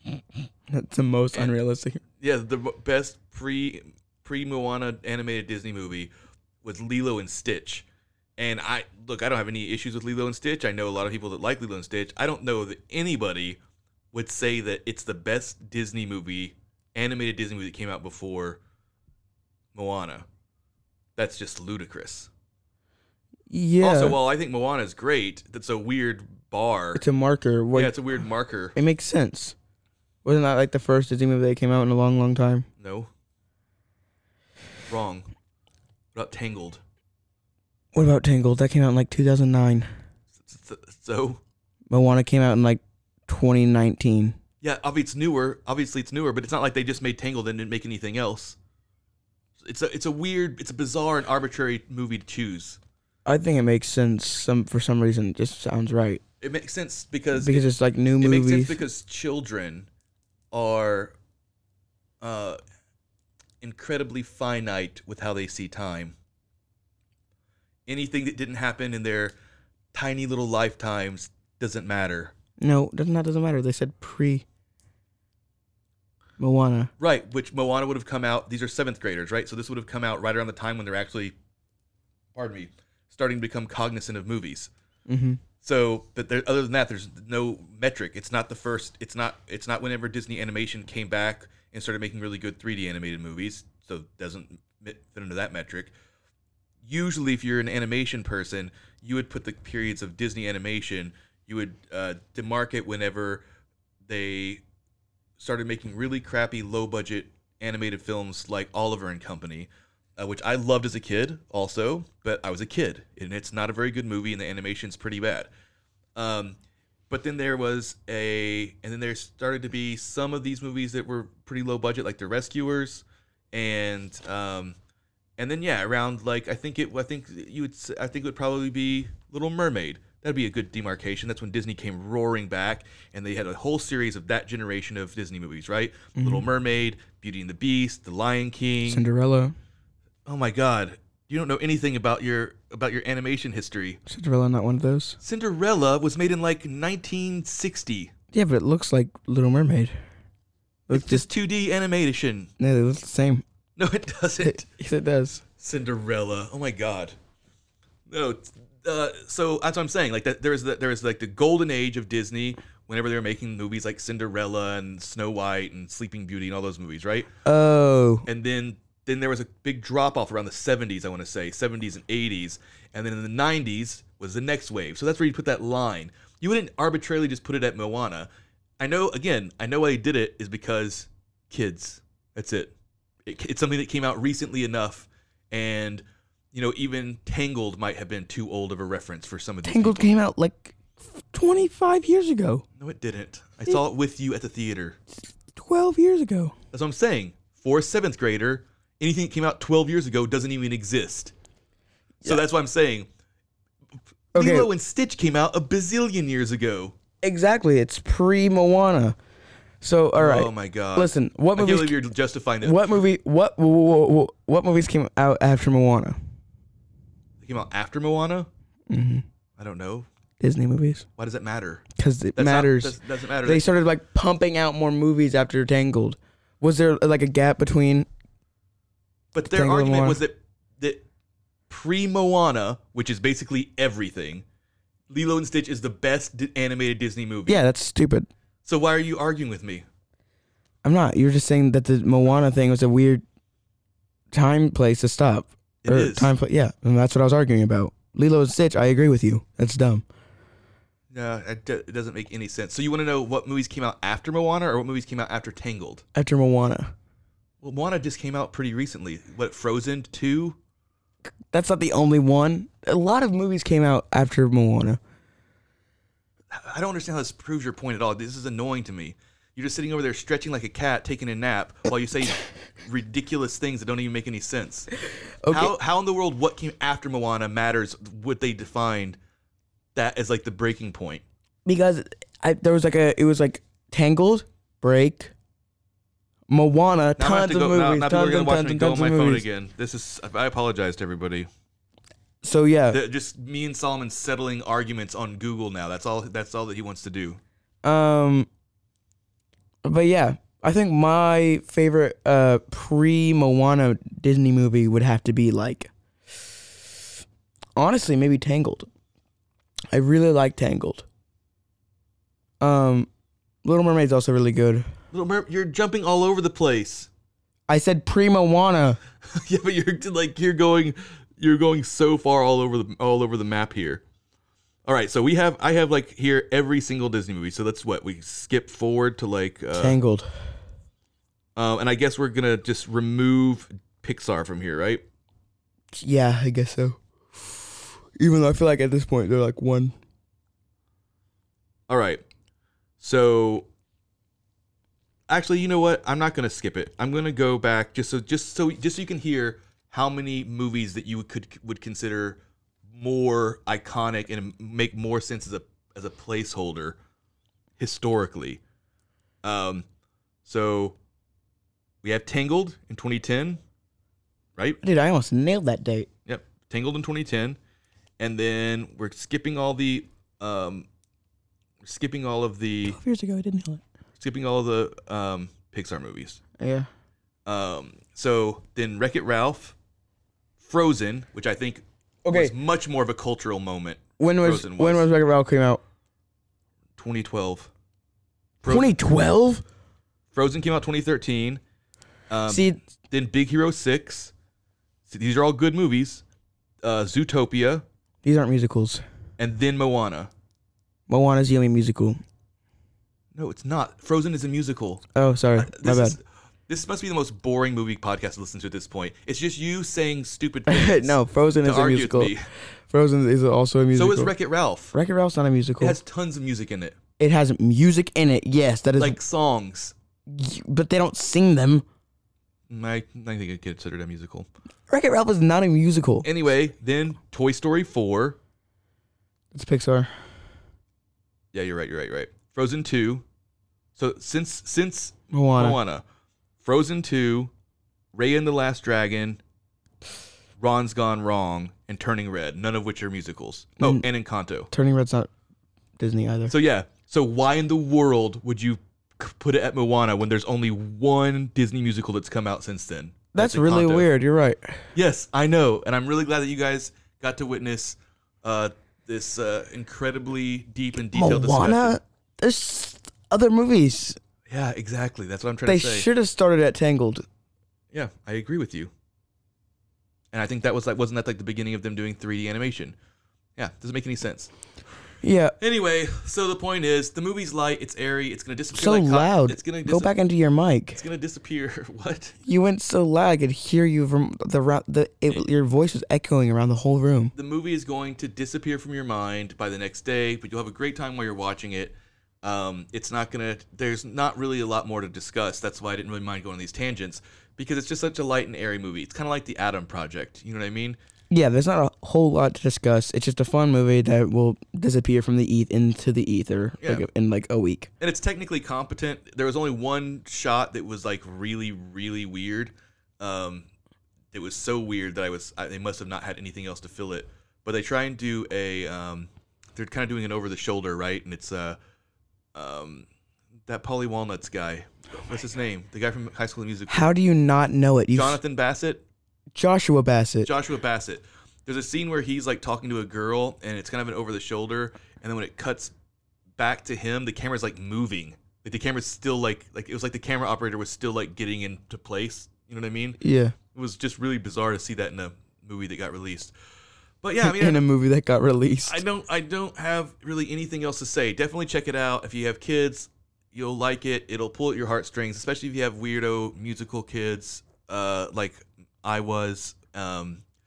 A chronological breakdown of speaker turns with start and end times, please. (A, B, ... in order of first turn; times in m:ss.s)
0:00.7-0:02.0 A
0:02.2-0:06.1 B
0:06.6-0:07.8 B
0:08.4-0:13.6 B
0:14.1-0:18.6 B
0:19.7-0:20.2 B
0:21.2-0:22.3 B
0:23.5-0:24.2 A
0:23.8-0:27.0 B
0:26.9-0:27.9 A
0:27.7-0:28.8 B
0:28.8-0:29.6 A
0:30.2-0:32.7 A
0:32.8-0:33.1 B
0:34.9-0:35.3 B
0:36.1-0:36.8 B
0:37.9-0:39.9 A
0:40.4-0:41.4 B
0:41.9-0:44.4 A
0:44.6-0:48.6 B
0:49.6-0:52.8 B
0:53.2-0:56.2 A
0:56.4-0:57.6 B
0:57.3-0:58.8 A
0:58.2-0:59.9 B
1:00.5-1:01.1 B
1:02.2-1:02.6 B
1:03.6-1:06.1 B
1:07.9-1:09.3 B
1:09.9-1:12.3 B
1:12.6-1:14.4 A
1:16.4-1:16.9 A
1:17.0-1:21.3 B
1:22.3-1:24.7 B
1:25.1-1:25.4 A
1:25.6-1:35.9 B
1:36.8-1:43.4 B
1:44.1-1:44.6 B
1:45.4-1:55.5 B
1:56.2-1:56.6 B
1:57.1-2:04.8 B
2:05.4-2:19.0 B
2:16.2-2:16.4 A
2:18.9-2:19.6 A
2:20.2-2:24.0 B
2:24.1-2:25.2 A
2:25.2-2:28.1 B
2:28.3-2:29.9 A
2:30.9-2:31.2 A
2:30.9-2:32.5 B
2:32.6-2:33.4 A
2:33.8-2:34.7 B
2:34.4-2:35.4 A
2:35.6-2:37.2 B
2:38.1-2:47.3 B
2:47.4-2:48.3 A
2:48.3-3:02.7 B
3:03.2-3:10.0 B
3:09.6-3:12.6 A
3:12.8-3:15.0 B
3:15.5-3:16.5 A
3:16.7-3:21.3 B
3:22.2-3:23.1 B
3:24.3-3:26.9 B
3:24.3-3:24.7 A
3:27.2-3:29.2 A
3:29.8-3:32.0 A
3:30.2-3:33.0 B
3:32.6-3:36.2 A
3:37.4-3:38.5 B
3:38.9-3:39.2 A
3:39.6-3:40.1 B
3:40.4-3:41.0 A
3:41.2-3:41.8 B
3:42.0-3:48.1 A
3:42.3-3:43.6 B
3:49.3-3:51.0 B
3:49.5-3:50.2 A
3:51.7-3:54.4 B
3:55.1-3:57.6 B
3:57.5-3:58.3 A
3:58.6-3:59.8 B
4:00.8-4:03.2 A
4:04.3-4:10.0 A
4:05.8-4:06.3 B
4:11.1-4:16.0 B
4:16.1-4:16.9 A
4:17.6-4:20.6 B
4:21.5-4:25.0 A
4:26.5-4:34.9 B
4:35.4-4:35.7 A
4:35.5-4:39.2 B
4:39.9-4:41.2 B
4:41.6-4:45.3 A
4:46.5-4:49.4 A
4:47.2-4:51.5 B
4:52.4-4:53.0 A
4:52.9-4:57.4 B
4:57.8-4:58.5 A
4:59.8-5:05.9 A
5:07.8-5:08.9 A
5:09.9-5:11.0 A
5:12.6-5:13.1 A
5:13.6-5:14.9 A
5:15.1-5:17.1 B
5:17.7-5:19.0 A
5:19.3-5:24.0 B
5:24.8-5:30.0 B
5:29.7-5:30.3 A
5:31.6-5:35.0 B
5:35.9-5:39.9 A
5:41.9-5:42.2 B
5:43.0-5:43.7 B
5:45.3-5:57.0 B
5:57.8-5:58.6 B
5:59.4-5:59.8 B
6:00.4-6:01.0 B
6:02.0-6:03.6 B
6:04.8-6:06.1 A
6:06.2-6:07.6 B
6:08.2-6:10.9 B
6:11.8-6:13.0 B
6:12.8-6:13.8 A
6:14.2-6:16.4 B
6:16.6-6:16.9 A
6:17.4-6:19.7 B
6:20.6-6:25.1 B
6:22.2-6:22.5 A
6:24.2-6:25.8 A
6:27.0-6:27.7 B
6:28.6-6:28.9 B
6:28.6-6:29.6 A
6:30.3-6:31.6 B
6:32.3-6:34.3 B
6:32.5-6:32.8 A
6:35.1-6:36.2 B
6:36.8-6:37.8 B
6:38.2-6:39.0 A
6:39.4-6:40.3 B
6:41.1-6:42.2 A
6:43.3-6:45.0 B
6:45.1-6:46.2 A
6:45.6-6:52.4 B
6:50.7-6:54.3 A
6:53.9-6:54.9 B
6:54.9-6:56.0 A
6:55.8-6:57.0 B
6:57.2-6:59.2 A
6:59.0-6:59.9 B
7:00.3-7:01.8 A
7:02.7-7:04.5 B
7:04.9-7:06.3 A
7:06.2-7:08.4 B
7:09.5-7:10.1 A
7:11.5-7:13.2 B
7:14.0-7:16.0 B
7:15.3-7:15.8 A
7:16.6-7:17.5 B
7:18.1-7:19.4 B
7:20.6-7:24.7 B
7:23.8-7:24.0 A
7:24.7-7:25.3 A
7:26.0-7:26.5 A
7:26.5-7:34.1 B
7:33.3-7:34.9 A
7:34.9-7:42.0 B
7:41.1-7:44.2 A
7:44.5-7:46.1 B
7:45.6-7:47.2 A
7:47.9-7:48.9 B
7:50.3-7:53.0 B
7:53.6-7:54.5 B
7:55.2-7:55.6 A
7:55.6-8:00.1 B
7:58.7-8:01.0 A
8:00.9-8:02.4 B
8:02.4-8:07.3 A
8:07.4-8:21.0 B
8:21.3-8:27.9 A
8:26.8-8:27.0 B
8:28.0-8:33.7 B
8:34.3-8:41.8 B
8:42.5-8:43.1 B
8:43.6-8:47.1 B
8:46.9-8:48.4 A
8:48.1-8:49.0 B
8:49.5-8:50.5 A
8:50.4-8:55.9 B
8:56.6-9:03.2 B
9:03.2-9:03.6 A
9:03.7-9:06.5 B
9:07.2-9:07.8 B
9:07.4-9:09.0 A
9:08.8-9:20.4 B